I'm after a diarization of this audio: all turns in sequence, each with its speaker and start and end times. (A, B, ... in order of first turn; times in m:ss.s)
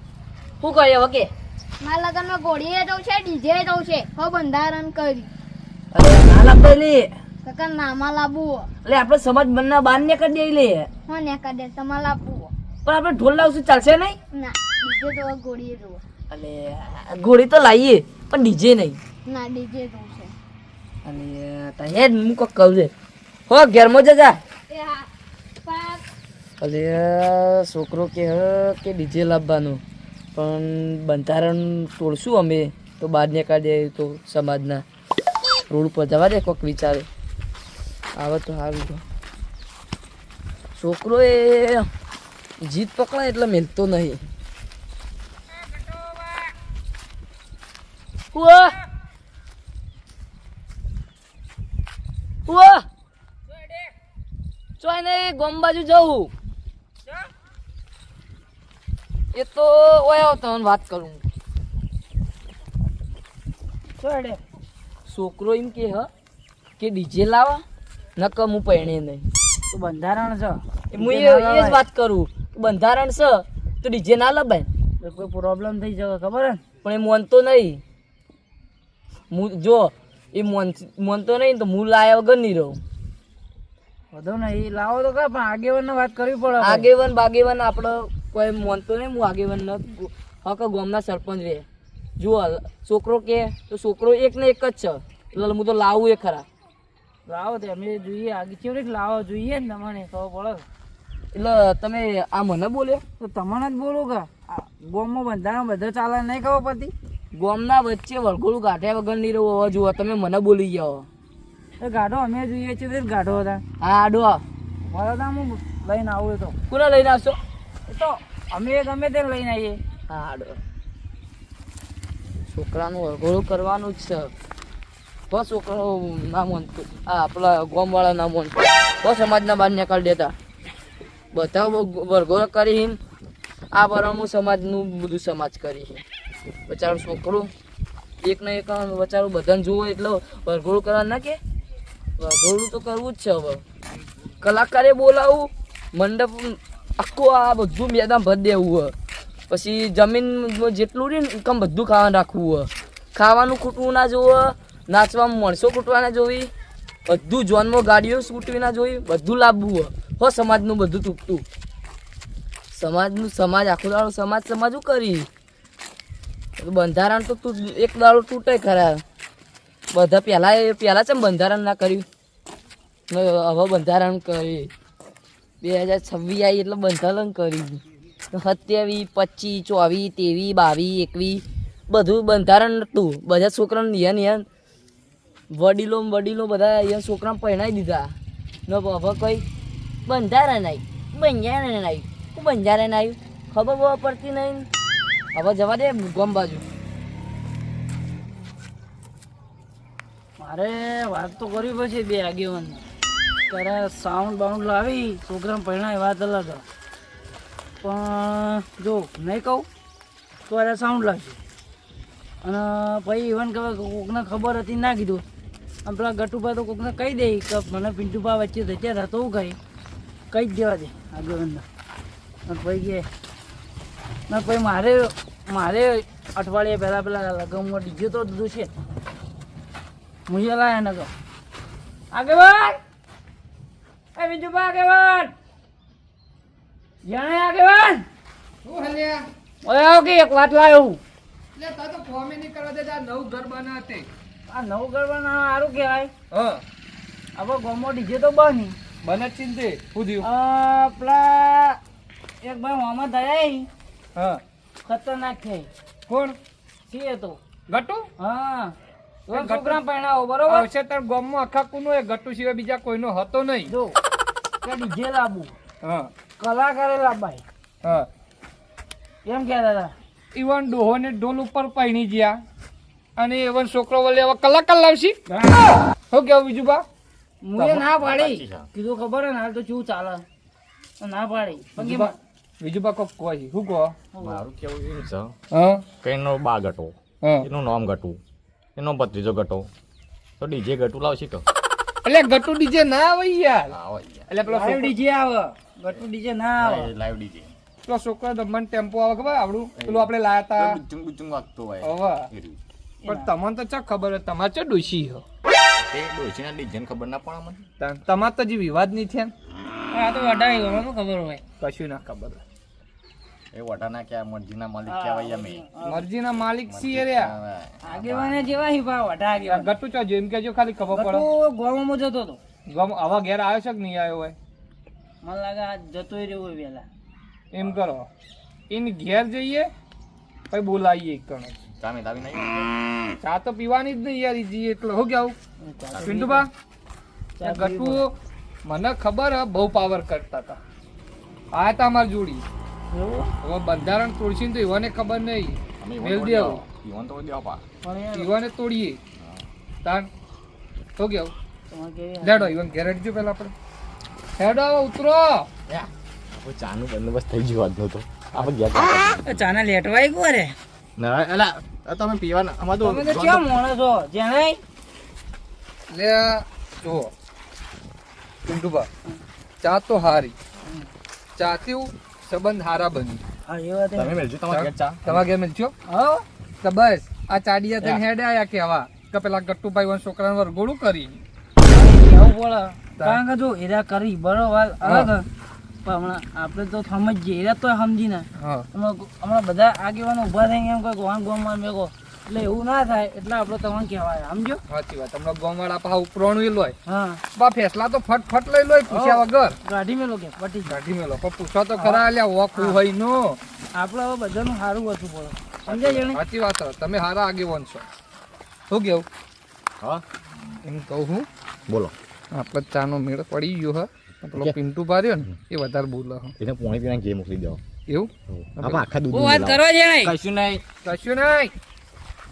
0:00.6-0:01.3 A
0:01.8-0:05.3 B
0:05.9-0:07.1 A
0:07.4-0:08.7 B
0:08.8-0:10.9 A
0:11.1-0:12.5 B
0:12.8-0:14.2 A
0:14.3-0:16.0 B
0:16.3-0:19.0 A
0:19.2-0:20.3 B
0:21.0-0:22.9 A
0:23.5-0:24.4 A
0:24.7-0:25.1 B
0:25.6-0:26.0 B
0:26.6-0:29.8 A
0:30.4-0:34.8 A
0:35.7-0:37.0 A
0:38.2-0:39.0 A
0:40.8-0:41.9 A
0:42.6-0:44.2 A
0:45.8-0:46.2 C
0:48.3-0:48.8 A
0:52.5-0:52.8 A
0:54.8-0:56.3 A
0:59.3-1:01.2 A
1:04.0-1:04.4 C
1:05.1-1:06.1 A
1:06.8-1:07.6 A
1:08.2-1:09.3 A
1:09.7-1:11.8 C
1:10.9-1:14.7 A
1:15.0-1:16.6 C
1:16.8-1:17.8 A
1:19.3-1:22.8 A
1:24.1-1:26.9 C
1:26.6-1:31.6 A
1:32.2-1:36.4 A
1:37.3-1:40.6 C
1:41.3-1:43.0 A
1:43.2-1:46.9 C
1:47.3-1:51.1 A
1:51.8-1:53.6 C
1:53.8-1:54.4 A
1:54.8-1:56.6 C
1:56.7-1:57.4 A
1:57.9-1:59.8 C
2:00.1-2:00.6 A
2:02.5-2:04.3 A
2:05.3-2:10.3 A
2:11.3-2:13.0 A
2:13.7-2:16.0 A
2:16.7-2:17.5 A
2:18.2-2:21.4 A
2:22.2-2:23.6 A
2:24.4-2:28.9 A
2:29.5-2:36.5 A
2:37.1-2:41.4 A
2:42.7-2:45.3 A
2:46.6-2:49.0 A
2:49.9-2:52.0 A
2:53.1-2:54.7 A
2:55.6-3:04.4 A
3:05.5-3:08.2 A
3:08.7-3:09.4 A
3:10.0-3:14.7 A
3:15.3-3:16.6 A
3:20.4-3:22.8 C
3:23.5-3:26.6 C
3:27.8-3:29.7 C
3:30.5-3:31.4 C
3:32.4-3:35.2 C
3:35.8-3:39.6 C
3:40.3-3:41.6 C
3:42.4-3:43.0 C
3:44.3-3:48.7 C
3:50.3-3:51.1 C
3:52.1-3:52.8 C
3:54.1-3:55.3 C
3:57.0-3:58.0 C
3:58.6-3:59.2 D
3:59.6-4:01.0 C
4:01.5-4:04.0 D
4:04.5-4:06.1 C
4:06.3-4:06.6 D
4:07.4-4:08.8 C
4:09.0-4:10.3 D
4:10.2-4:11.8 C
4:12.4-4:13.7 C
4:14.1-4:14.4 D
4:14.8-4:15.7 C
4:16.1-4:16.3 D
4:16.8-4:17.4 C
4:17.7-4:18.1 D
4:18.2-4:18.7 C
4:19.3-4:20.7 C
4:19.3-4:19.8 D
4:20.5-4:23.7 D
4:23.7-4:23.9 C
4:24.6-4:25.6 C
4:25.8-4:26.1 D
4:26.4-4:27.4 C
4:27.8-4:28.1 D
4:29.2-4:29.9 C
4:30.3-4:32.4 D
4:33.2-4:35.2 D
4:35.3-4:35.8 C
4:36.1-4:36.8 D
4:37.4-4:40.2 C
4:37.6-4:38.7 E
4:41.0-4:42.1 C
4:41.8-4:43.9 D
4:44.1-4:44.4 C
4:44.2-4:45.3 E
4:45.5-4:45.8 D
4:46.0-4:48.2 E
4:48.8-4:49.7 E
4:50.4-4:51.4 E
4:52.0-4:53.7 D
4:53.7-4:54.3 E
4:54.3-4:54.9 D
4:54.4-4:56.9 C
4:56.6-4:57.5 E
4:57.8-5:00.8 D
4:59.8-5:02.6 E
5:01.8-5:02.3 D
5:03.0-5:03.3 C
5:03.0-5:05.2 D
5:05.8-5:07.6 E
5:07.8-5:09.3 D
5:09.9-5:11.4 C
5:11.6-5:12.4 D
5:13.5-5:15.6 E
5:14.9-5:16.0 C
5:15.8-5:17.3 D
5:16.6-5:18.4 E
5:17.8-5:19.7 C
5:19.5-5:21.3 D
5:20.9-5:22.4 C
5:22.7-5:24.4 D
5:25.2-5:26.9 C
5:27.5-5:28.1 D
5:28.7-5:29.7 D
5:30.5-5:31.5 D
5:31.8-5:32.7 E
5:33.2-5:35.4 D
5:35.6-5:36.5 C
5:35.9-5:36.2 E
5:36.0-5:36.5 D
5:37.4-5:38.1 C
5:37.4-5:38.1 D
5:38.6-5:40.6 D
5:41.5-5:42.4 D
5:42.9-5:43.3 C
5:43.4-5:46.6 D
5:45.8-5:47.6 E
5:47.8-5:48.3 C
5:48.1-5:49.0 D
5:49.2-5:49.4 E
5:51.0-5:51.3 D
5:51.7-5:52.6 C
5:52.2-5:53.5 D
5:54.4-5:55.5 D
5:55.7-5:59.4 E
5:58.9-6:00.6 C
6:01.0-6:03.4 E
6:02.8-6:04.6 C
6:05.9-6:07.1 D
6:08.4-6:08.9 D
6:09.6-6:10.3 D
6:11.4-6:13.2 D
6:13.4-6:14.2 C
6:13.9-6:15.2 E
6:14.5-6:15.7 D
6:15.8-6:16.2 C
6:16.6-6:21.2 D
6:21.6-6:25.2 C
6:24.8-6:25.1 D
6:25.8-6:34.6 C
6:28.4-6:28.6 D
6:34.7-6:36.7 D
6:36.8-6:37.2 C
6:37.3-6:39.6 D
6:38.9-6:39.2 E
6:39.6-6:40.8 C
6:40.7-6:43.4 D
6:41.8-6:42.0 C
6:43.7-6:46.2 C
6:45.6-6:46.0 E
6:46.1-6:47.9 D
6:48.7-6:49.0 D
6:50.6-6:51.2 D
6:51.7-6:51.9 E
6:52.3-6:56.3 D
6:56.4-6:57.6 E
6:57.9-6:58.8 D
6:58.3-7:00.6 E
6:59.1-7:00.1 C
7:00.8-7:01.5 D